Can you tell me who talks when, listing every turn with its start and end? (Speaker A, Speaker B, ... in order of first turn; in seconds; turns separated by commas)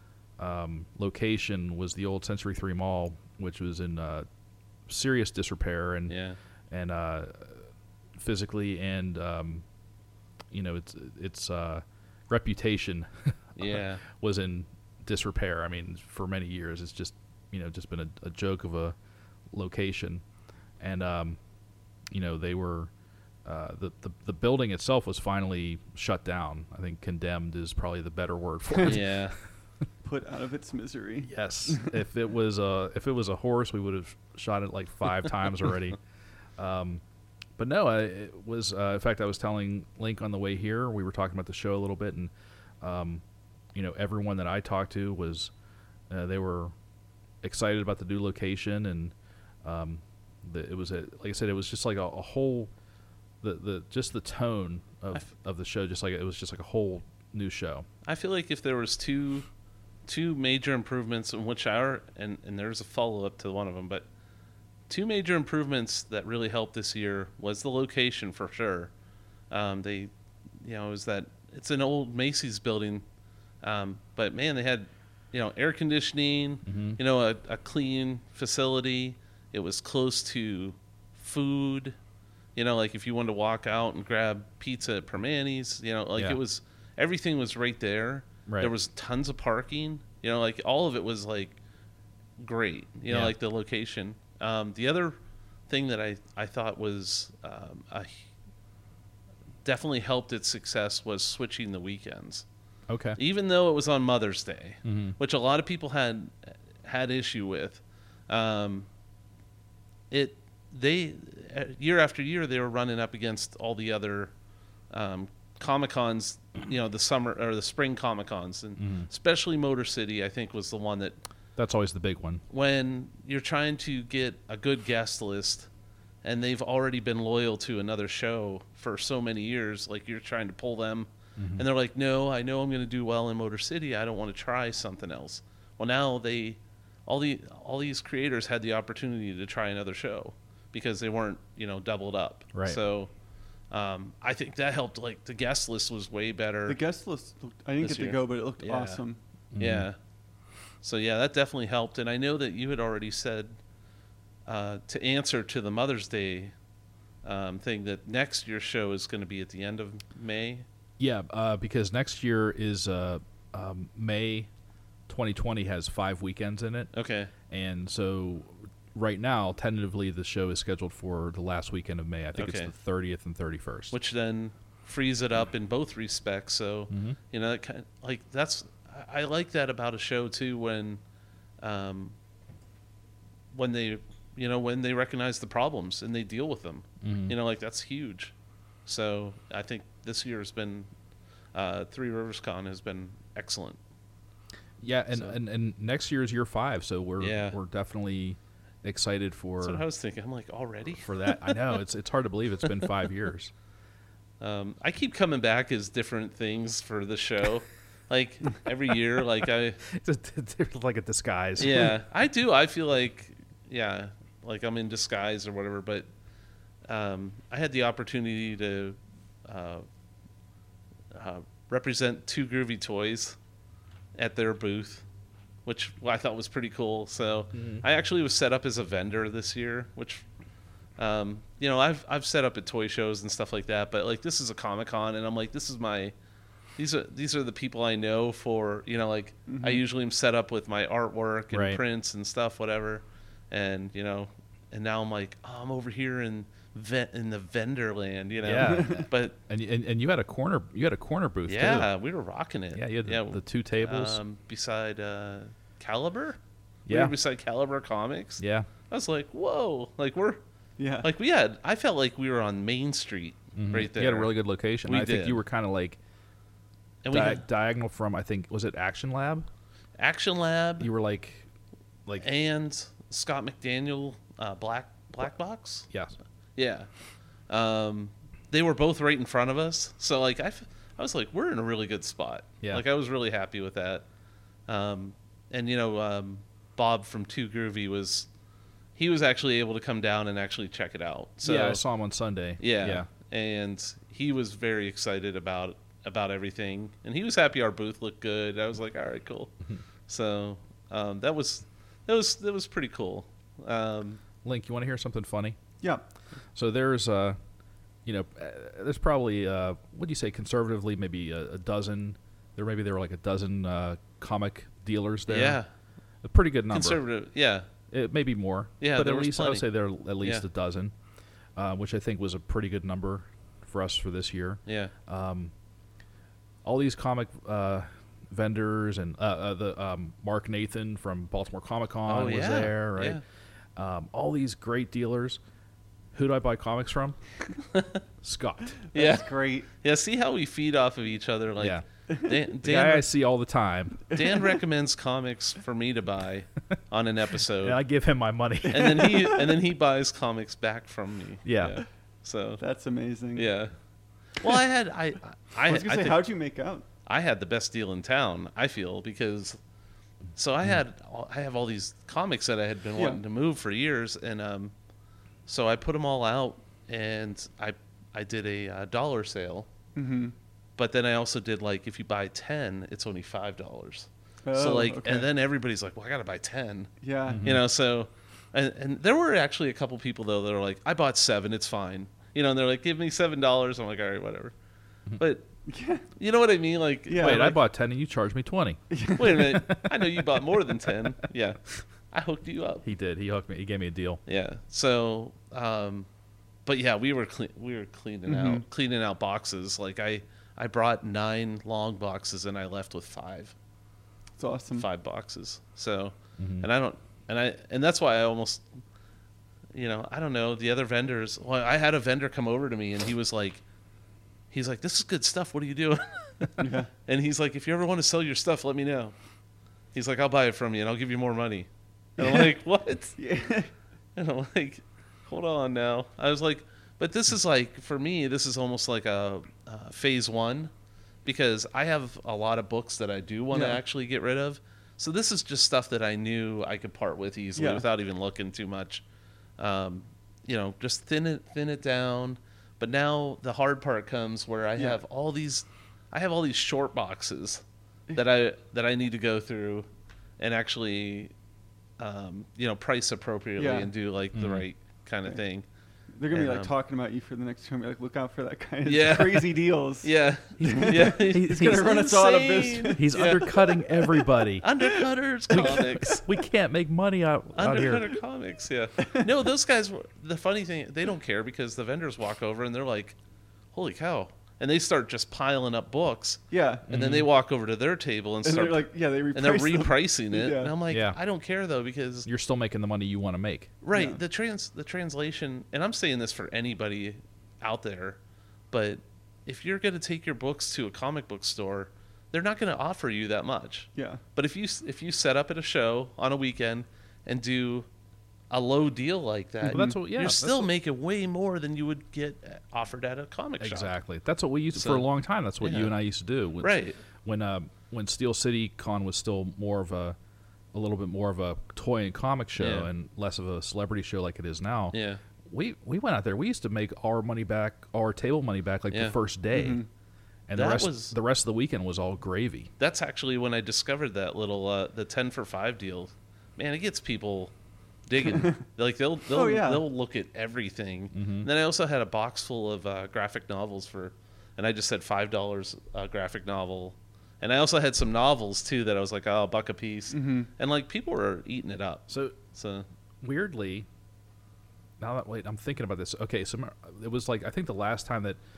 Speaker A: 0.4-4.2, Speaker A: 4.9-6.2, Speaker B: 6.1-6.4, Speaker A: 6.7-9.6, Speaker A: 10.5-18.9, Speaker B: 13.6-14.0, Speaker A: 19.5-20.2, Speaker A: 20.8-21.4, Speaker A: 22.1-22.9, Speaker A: 23.4-29.3, Speaker B: 28.8-29.4, Speaker C: 30.0-31.9, Speaker A: 31.2-36.0, Speaker A: 36.6-37.0, Speaker A: 37.6-43.2, Speaker A: 43.7-45.5, Speaker A: 46.1-46.7, Speaker A: 47.4-52.7, Speaker A: 53.4-57.9, Speaker B: 58.0-59.5, Speaker B: 60.0-64.0, Speaker B: 64.9-68.9, Speaker B: 69.5-73.0, Speaker B: 73.6-82.0, Speaker A: 76.6-77.0, Speaker B: 82.5-91.6, Speaker A: 88.5-88.7, Speaker B: 92.4-95.1, Speaker A: 93.1-93.3, Speaker B: 95.7-98.2, Speaker B: 99.6-102.4, Speaker A: 102.9-103.2, Speaker B: 103.2-108.9, Speaker A: 104.8-105.2, Speaker B: 110.1-114.3, Speaker B: 114.9-121.2, Speaker A: 118.8-119.1, Speaker A: 121.5-122.4, Speaker B: 122.5-125.7, Speaker B: 126.2-143.1, Speaker A: 131.4-131.7, Speaker A: 142.5-142.8, Speaker B: 143.7-146.8, Speaker C: 146.7-149.2, Speaker B: 147.8-149.0, Speaker A: 149.5-149.9, Speaker B: 149.6-150.0, Speaker B: 150.8-153.6, Speaker B: 154.4-156.5, Speaker B: 157.2-160.7, Speaker A: 161.0-164.5, Speaker A: 165.1-166.9, Speaker B: 166.9-167.3, Speaker A: 167.5-173.9, Speaker B: 172.3-172.7, Speaker B: 173.9-181.0, Speaker A: 176.9-177.2, Speaker B: 181.6-182.1, Speaker B: 183.5-188.3, Speaker A: 187.0-187.4, Speaker B: 188.9-190.9, Speaker B: 191.5-193.8, Speaker A: 194.8-199.8, Speaker B: 197.2-197.6, Speaker B: 199.6-201.7, Speaker A: 201.0-203.5, Speaker B: 204.4-209.8, Speaker A: 209.9-212.0, Speaker B: 211.6-216.1, Speaker B: 216.9-219.8, Speaker B: 221.1-223.4, Speaker B: 224.1-225.0, Speaker B: 225.6-230.2, Speaker A: 227.5-227.8, Speaker B: 231.0-236.1, Speaker B: 236.8-249.4, Speaker C: 239.5-239.8, Speaker A: 241.5-241.8, Speaker A: 248.4-251.9, Speaker C: 248.6-249.0, Speaker B: 251.5-260.4, Speaker A: 252.7-254.2, Speaker A: 256.9-257.1, Speaker A: 258.4-258.7, Speaker C: 260.8-261.1, Speaker B: 261.0-264.3, Speaker A: 263.6-266.0, Speaker B: 264.8-265.4, Speaker B: 267.0-267.4, Speaker A: 267.1-269.5, Speaker B: 270.0-270.9, Speaker A: 270.8-271.5, Speaker B: 272.1-275.9, Speaker A: 275.9-276.1, Speaker B: 276.6-276.9, Speaker B: 277.5-284.0, Speaker B: 284.7-288.3, Speaker B: 288.9-291.8, Speaker A: 291.4-293.1, Speaker B: 292.6-299.5, Speaker B: 300.1-304.2, Speaker A: 304.4-305.6, Speaker A: 306.5-307.4, Speaker A: 308.0-315.6, Speaker B: 315.3-315.7, Speaker A: 316.2-317.0, Speaker B: 316.7-317.7, Speaker A: 317.9-320.9, Speaker B: 318.8-319.7, Speaker A: 321.6-325.5, Speaker B: 324.6-324.9, Speaker A: 326.6-333.2, Speaker B: 332.1-333.2, Speaker A: 333.8-335.4, Speaker A: 336.1-337.2, Speaker B: 337.7-338.0, Speaker A: 338.2-338.8, Speaker C: 338.9-339.7, Speaker B: 338.9-343.1, Speaker A: 341.6-341.8, Speaker A: 342.6-344.0, Speaker B: 344.1-347.8, Speaker C: 344.2-344.4, Speaker A: 347.6-349.1, Speaker B: 348.7-352.6, Speaker C: 348.7-349.5, Speaker A: 351.4-351.8, Speaker C: 352.6-353.5, Speaker B: 353.4-353.7, Speaker B: 354.4-356.2, Speaker C: 355.6-356.9, Speaker B: 357.1-359.6, Speaker B: 360.4-364.7, Speaker C: 362.9-363.2, Speaker B: 365.5-369.7, Speaker C: 369.9-370.4, Speaker B: 370.8-384.5, Speaker C: 374.4-375.3, Speaker C: 377.0-377.5, Speaker A: 377.3-377.6, Speaker B: 385.2-385.5, Speaker C: 385.7-386.1, Speaker B: 386.2-387.6, Speaker C: 387.1-387.5, Speaker A: 387.1-388.8, Speaker C: 388.9-389.6, Speaker B: 389.1-392.8, Speaker A: 389.4-390.2, Speaker A: 392.8-394.2, Speaker B: 394.3-396.1, Speaker B: 396.6-403.5, Speaker C: 398.3-398.6, Speaker C: 404.4-404.9, Speaker B: 404.7-408.6, Speaker A: 406.4-406.7, Speaker B: 409.7-413.6, Speaker B: 414.5-419.1, Speaker C: 416.6-416.9, Speaker B: 419.9-423.1, Speaker C: 422.2-422.5, Speaker C: 423.1-423.7, Speaker B: 424.1-430.7, Speaker B: 431.2-439.0, Speaker C: 433.5-433.8, Speaker C: 437.6-437.9, Speaker B: 439.6-447.6, Speaker B: 448.1-449.9, Speaker B: 450.4-451.3, Speaker B: 452.0-455.6, Speaker C: 453.6-453.9, Speaker A: 454.3-454.6, Speaker C: 456.1-464.2, Speaker B: 456.3-456.7, Speaker B: 458.9-463.5, Speaker A: 460.6-461.9, Speaker A: 463.0-464.7, Speaker B: 464.6-466.3, Speaker A: 465.5-468.1, Speaker C: 465.5-466.1, Speaker B: 467.5-473.1, Speaker B: 473.7-482.3, Speaker C: 476.5-476.9, Speaker A: 476.9-477.3, Speaker C: 478.4-480.7, Speaker A: 480.9-481.2, Speaker A: 482.2-483.7, Speaker B: 483.8-488.2, Speaker C: 483.9-484.2, Speaker B: 488.7-497.9, Speaker C: 493.9-494.2, Speaker B: 498.5-503.9, Speaker C: 499.6-500.0, Speaker A: 499.7-500.7, Speaker A: 503.6-510.2, Speaker B: 504.7-505.1, Speaker B: 505.6-505.9, Speaker B: 506.6-507.0, Speaker A: 510.7-519.8, Speaker B: 512.6-512.9, Speaker B: 514.9-515.2, Speaker B: 518.9-519.1, Speaker C: 519.5-519.9, Speaker A: 520.5-522.7, Speaker B: 520.5-521.1, Speaker B: 522.8-527.5, Speaker B: 528.1-542.9, Speaker C: 528.2-528.6, Speaker C: 529.3-529.9, Speaker A: 531.1-531.5, Speaker C: 540.1-540.5, Speaker A: 542.1-542.4, Speaker A: 543.2-543.9, Speaker A: 545.0-548.4